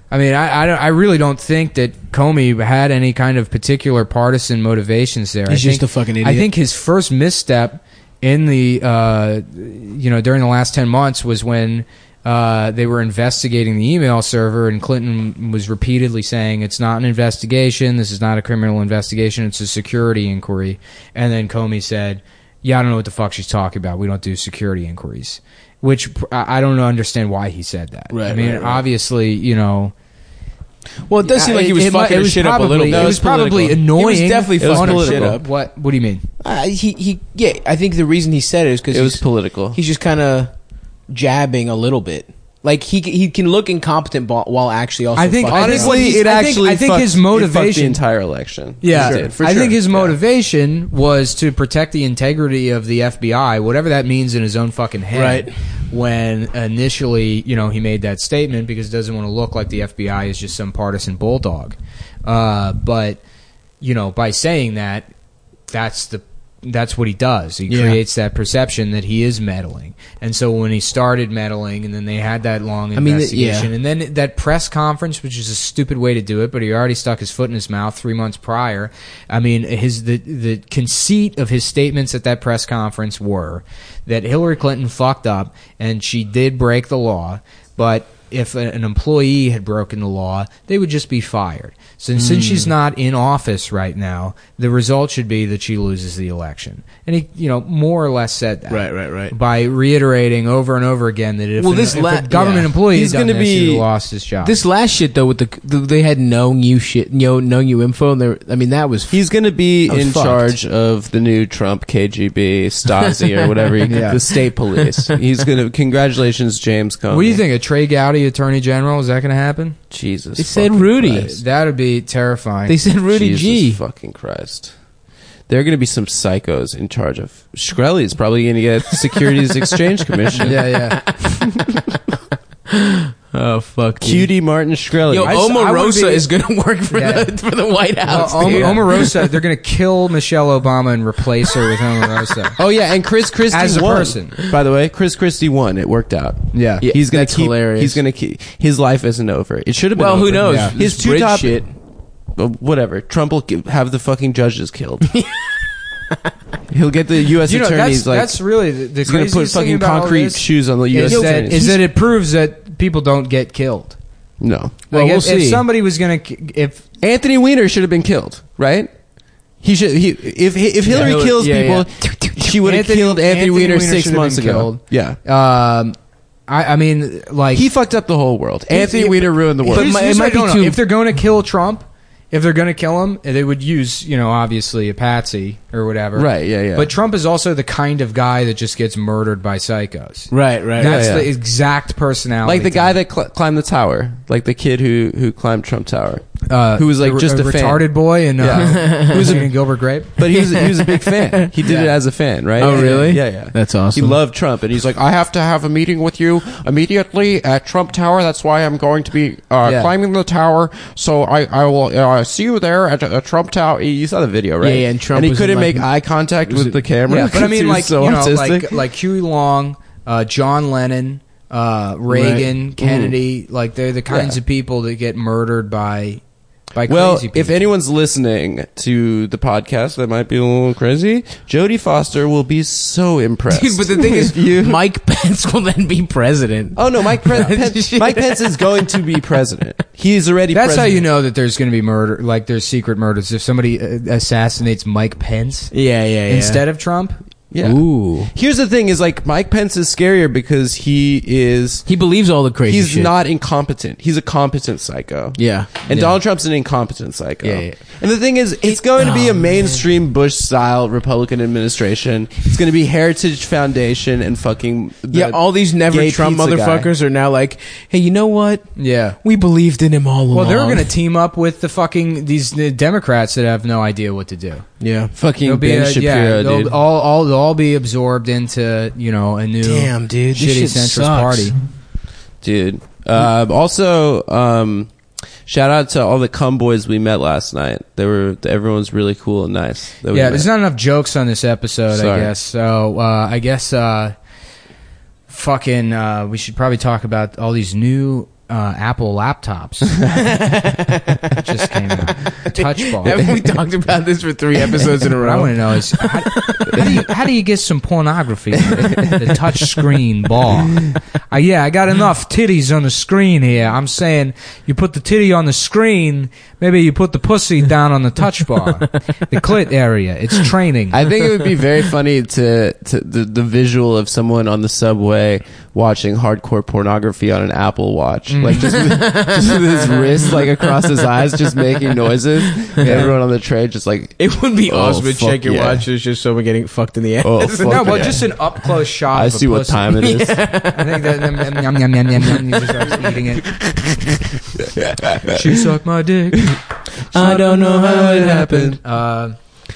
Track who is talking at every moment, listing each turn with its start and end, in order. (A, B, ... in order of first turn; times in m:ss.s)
0:00.1-0:29.9 A
0:05.5-0:06.5 B
0:28.1-0:28.8 B
0:31.1-0:35.5 B
0:31.3-0:36.2 A
0:32.9-0:33.6 C
0:34.6-0:35.4 C
0:36.4-0:40.5 B
0:38.9-0:39.8 C
0:41.1-0:46.0 B
0:45.2-0:48.0 A
0:45.5-0:50.2 C
0:48.8-1:03.2 A
0:48.9-0:49.3 B
0:55.1-0:55.5 B
1:03.8-1:05.1 A
1:05.7-1:44.6 A
1:07.7-1:08.0 B
1:13.0-1:13.7 B
1:32.2-1:32.7 B
1:38.7-1:39.3 B
1:41.6-1:42.7 B
1:42.9-1:43.8 C
1:44.4-1:49.2 B
1:49.1-1:57.4 C
1:49.9-1:50.5 B
1:53.0-1:53.7 B
1:53.8-1:54.2 A
1:54.8-1:55.2 B
1:57.1-1:59.8 A
1:59.9-2:01.3 C
2:00.4-2:01.4 B
2:01.1-2:02.8 A
2:02.7-2:03.8 B
2:03.1-2:04.7 C
2:05.5-2:10.6 C
2:09.1-2:09.6 B
2:10.3-2:11.8 B
2:10.4-2:11.0 A
2:12.7-2:14.3 B
2:14.0-2:15.4 C
2:15.1-2:19.2 B
2:15.2-2:16.3 A
2:16.9-2:17.3 A
2:18.0-2:22.6 A
2:18.4-2:18.8 C
2:22.6-2:31.7 C
2:23.5-2:24.3 A
2:26.5-2:26.9 A
2:26.8-2:28.0 B
2:30.0-2:31.7 B
2:30.4-2:30.8 A
2:32.4-2:35.2 C
2:35.1-2:35.6 B
2:36.7-2:38.4 C
2:37.5-2:44.0 A
2:39.0-2:41.8 C
2:41.1-2:41.8 B
2:44.4-2:44.8 C
2:44.9-2:45.6 B
2:44.9-2:46.8 A
2:47.0-2:48.9 C
2:49.6-2:55.2 C
2:50.9-2:52.6 B
2:52.6-2:56.0 A
2:56.5-2:57.7 A
2:57.5-2:59.9 C
2:58.7-3:00.8 B
2:59.7-3:13.0 A
3:06.2-3:06.9 C
3:10.3-3:11.1 B
3:10.8-3:11.3 C
3:12.4-3:17.9 C
3:16.5-3:20.1 A
3:18.4-3:19.5 C
3:18.8-3:19.1 B
3:20.2-3:38.8 C
3:20.3-3:21.8 B
3:21.6-3:21.9 A
3:22.6-3:24.2 B
3:22.6-3:23.1 A
3:29.6-3:29.9 A
3:34.6-3:35.9 B
3:36.5-3:36.8 B
3:37.1-3:46.2 A
3:42.1-3:42.5 B
3:42.8-3:43.2 C
3:44.1-3:44.4 C
3:46.7-3:47.7 A
3:46.9-3:54.8 C
3:53.5-3:59.1 B
3:56.8-4:01.1 C
4:00.5-4:05.7 A
4:05.7-4:06.6 B
4:06.3-4:07.2 A
4:07.5-4:11.9 C
4:07.6-4:08.3 B
4:11.9-4:13.1 B
4:12.7-4:26.9 C
4:15.4-4:15.7 B
4:15.9-4:16.2 A
4:17.4-4:17.9 B
4:18.6-4:19.8 B
4:25.1-4:30.9 B
4:28.8-4:29.2 A
4:30.3-4:34.7 A
4:34.8-4:35.1 B
4:35.2-4:36.7 C
4:35.4-4:41.6 A
4:39.6-4:41.5 B
4:42.4-4:44.9 C
4:45.5-4:50.5 C
4:50.1-4:54.2 A
4:51.9-4:52.3 C
4:55.3-5:00.0 A
5:00.1-5:01.3 B
5:01.4-5:03.2 A
5:02.5-5:06.9 B
5:05.0-5:21.0 A
5:20.9-5:35.8 C
5:28.3-5:28.7 A
5:28.6-5:33.1 B
5:32.8-5:33.1 A
5:34.2-5:38.2 B
5:37.2-5:38.3 C
5:37.6-5:43.6 A
5:39.1-5:40.5 C
5:40.0-5:41.6 B
5:44.8-5:45.3 C
5:45.2-5:46.5 A
5:46.9-5:48.8 B
5:47.1-5:48.8 C
5:48.8-5:49.4 A